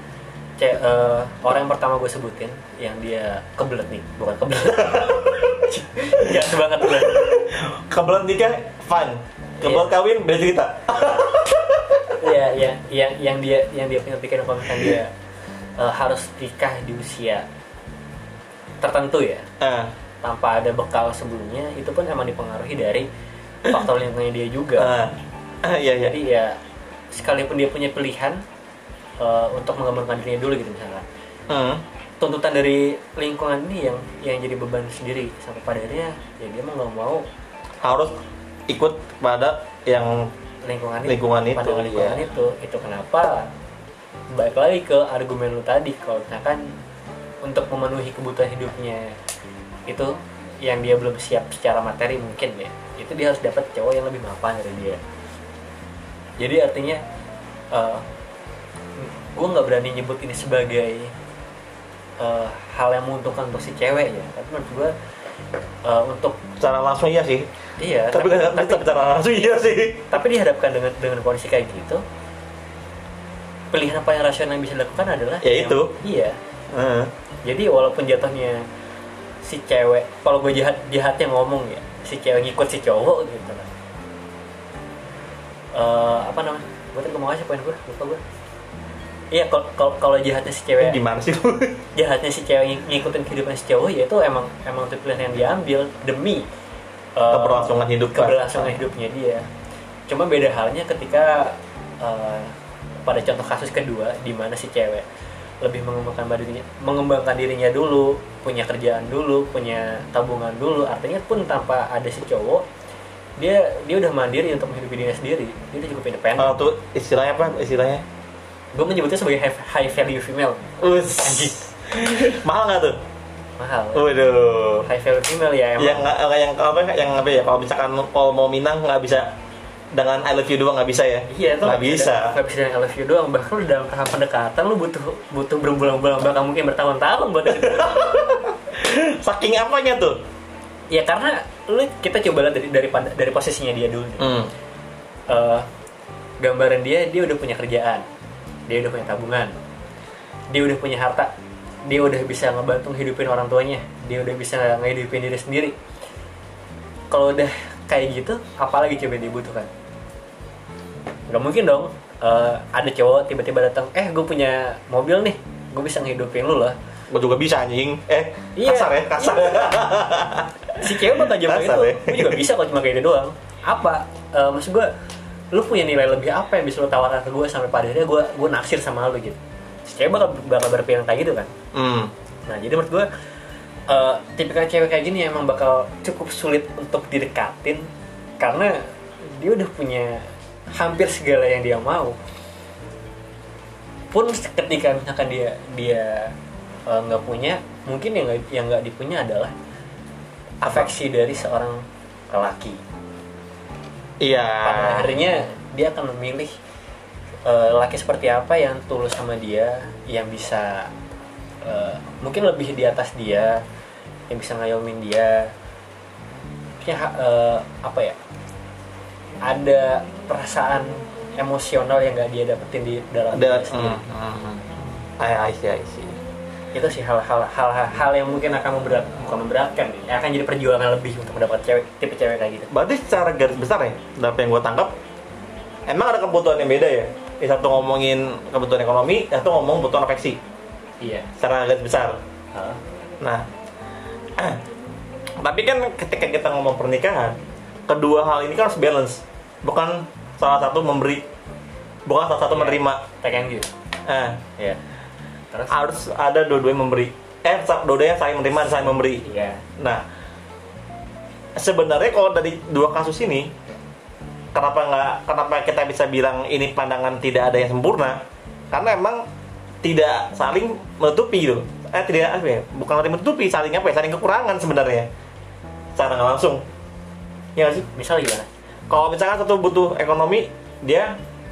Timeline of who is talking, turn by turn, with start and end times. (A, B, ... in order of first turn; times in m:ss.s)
0:00.6-0:07.2 A
0:04.7-0:12.2 B
0:09.6-0:09.9 A
0:12.1-0:15.1 A
0:15.8-0:17.5 A
0:18.8-0:19.4 A
0:19.6-0:19.9 B
0:20.2-0:23.1 A
0:23.6-0:24.9 A
0:24.8-0:26.1 B
0:26.0-0:26.6 A
0:27.1-0:28.4 A
0:29.2-0:31.0 A
0:31.5-0:31.8 B
0:32.2-0:37.2 A
0:37.8-0:38.1 B
0:38.7-0:40.3 B
0:40.6-0:43.5 A
0:41.0-0:42.2 B
0:44.3-0:46.6 A
0:47.4-0:49.1 A
0:49.9-0:55.0 A
0:56.4-0:57.0 A
0:57.7-0:58.0 A
0:59.0-1:01.1 A
1:02.2-1:04.9 A
1:05.8-1:06.4 A
1:06.6-1:07.5 B
1:07.8-1:09.0 A
1:08.1-1:10.0 B
1:10.1-1:12.0 A
1:13.7-1:16.4 A
1:15.4-1:15.9 B
1:16.7-1:17.1 B
1:17.4-1:18.6 A
1:19.4-1:23.7 A
1:25.7-1:28.2 A
1:29.3-1:31.0 A
1:30.8-1:31.8 B
1:31.9-1:36.5 A
1:37.2-1:39.4 A
1:37.3-1:38.8 B
1:40.1-1:45.0 A
1:45.6-1:52.6 A
1:53.4-1:56.5 A
1:56.4-1:58.0 B
1:58.7-2:01.7 A
2:00.8-2:03.0 B
2:03.6-2:04.1 A
2:03.9-2:04.9 B
2:04.8-2:06.1 A
2:05.8-2:09.3 B
2:09.9-2:12.3 B
2:11.3-2:18.4 A
2:17.5-2:20.2 B
2:20.9-2:24.3 A
2:24.2-2:24.5 B
2:25.3-2:25.6 A
2:26.4-2:28.0 A
2:28.7-2:29.5 A
2:30.5-2:31.3 A
2:31.9-2:35.7 A
2:37.1-2:39.7 A
2:41.3-2:46.8 A
2:47.1-2:52.4 B
2:48.6-2:49.8 A
2:50.8-2:54.9 A
2:55.5-3:01.5 A
3:01.7-3:02.1 B
3:02.5-3:03.1 A
3:03.9-3:07.9 A
3:08.4-3:12.2 A
3:14.1-3:16.3 A
3:16.9-3:19.5 A
3:20.6-3:20.9 B
3:20.6-3:22.8 A
3:24.2-3:25.1 B
3:24.6-3:26.5 A
3:27.4-3:30.9 A
3:31.6-3:33.6 A
3:34.3-3:35.5 A
3:36.8-3:38.2 A
3:39.4-3:44.0 A
3:43.3-3:46.2 B
3:46.7-3:52.7 A
3:52.7-3:54.9 B
3:55.9-4:00.4 B
4:01.0-4:01.3 A
4:01.4-4:02.2 B
4:02.5-4:02.8 A
4:05.4-4:11.2 B
4:12.1-4:13.0 B
4:12.5-4:13.7 A
4:14.0-4:14.4 B
4:15.5-4:15.8 A
4:15.7-4:19.2 B
4:18.7-4:19.6 A
4:19.8-4:20.0 B
4:21.6-4:23.5 B
4:24.5-4:29.2 B
4:29.8-4:35.1 B
4:36.0-4:36.6 B
4:37.6-4:37.9 B
4:37.9-4:38.5 A
4:38.9-4:41.2 B